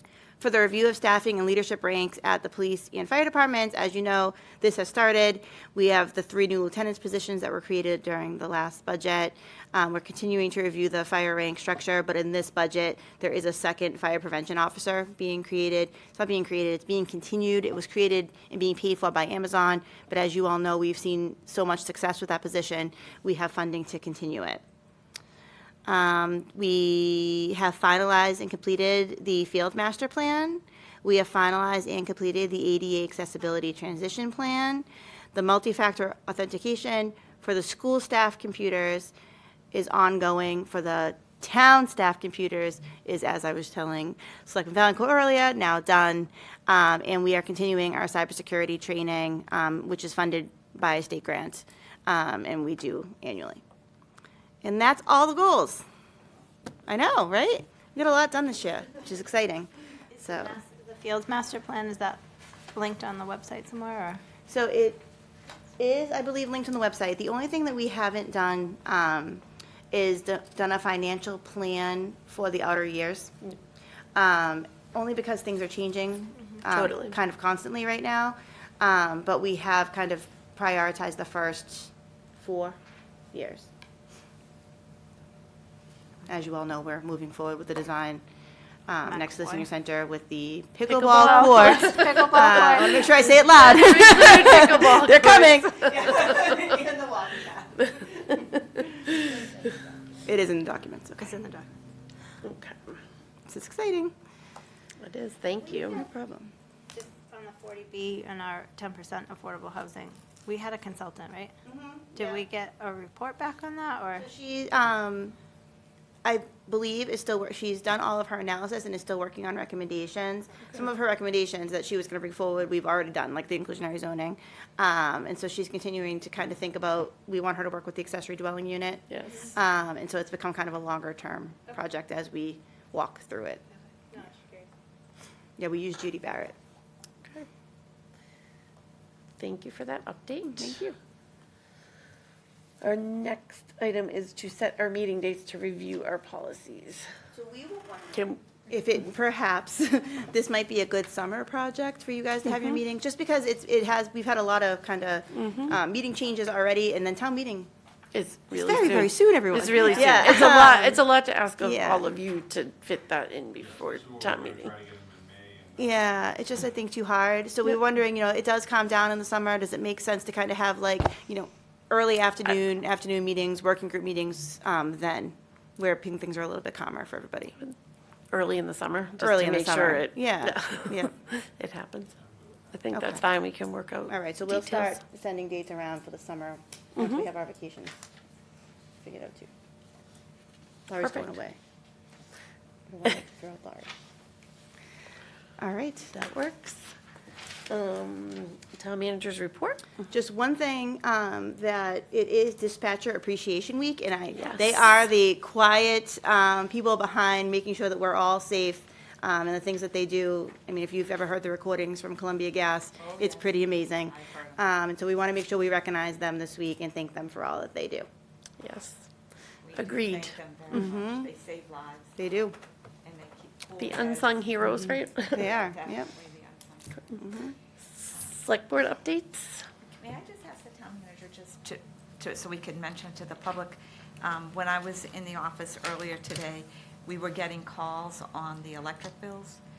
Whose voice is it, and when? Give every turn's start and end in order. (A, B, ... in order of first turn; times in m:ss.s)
0:00.4-0:24.6 A
0:25.8-0:39.1 A
0:39.7-0:53.6 A
0:54.6-0:55.8 A
0:56.9-1:00.6 A
1:00.2-1:04.2 B
1:04.5-1:05.0 A
1:05.8-1:13.3 A
1:14.1-1:22.8 A
1:16.7-1:17.2 C
1:23.3-1:23.7 A
1:26.3-1:28.2 A
1:28.9-1:41.4 A
1:29.0-1:29.7 B
1:30.9-1:32.0 C
1:31.1-1:33.1 B
1:33.0-1:35.9 C
1:41.2-1:41.7 B
1:42.4-1:43.0 C
1:43.5-1:44.1 A
1:45.0-1:46.0 C
1:45.6-1:46.5 A
1:46.9-1:51.5 B
1:51.6-1:52.4 A
1:52.1-1:54.3 B
1:54.2-1:55.3 A
1:56.2-2:13.6 A
2:09.1-2:09.4 C
2:14.1-2:14.7 B
2:15.6-2:16.5 A
2:19.4-2:20.9 C
2:20.6-2:20.9 A
2:22.8-2:27.0 C
2:27.3-2:37.7 A
2:28.1-2:28.4 C
2:35.3-2:35.8 C
2:38.1-2:44.7 C
2:38.5-2:41.0 A
2:41.6-2:42.1 A
2:43.6-2:46.0 D
2:45.8-2:57.5 A
2:58.3-3:02.1 C
2:59.2-3:01.1 A
3:02.7-3:05.0 C
3:02.9-3:03.2 A
3:04.1-3:08.0 A
3:07.0-3:07.2 C
3:09.0-3:09.5 A
3:10.9-3:11.6 A
3:11.0-3:11.3 C
3:12.9-3:13.9 A
3:15.6-3:16.2 A
3:16.1-3:16.9 C
3:17.7-3:19.9 C
3:20.1-3:38.1 A
3:24.3-3:24.8 C
3:33.0-3:34.6 E
3:38.6-3:39.0 C
3:39.6-3:42.2 E
3:39.7-3:40.9 C
3:40.7-3:41.3 A
3:42.2-3:42.5 A
3:43.0-3:44.4 E
3:43.8-3:45.5 C
3:44.8-3:46.1 A
3:45.2-3:47.1 E
3:47.1-3:47.5 A
3:48.0-3:49.6 C
3:49.8-3:59.6 E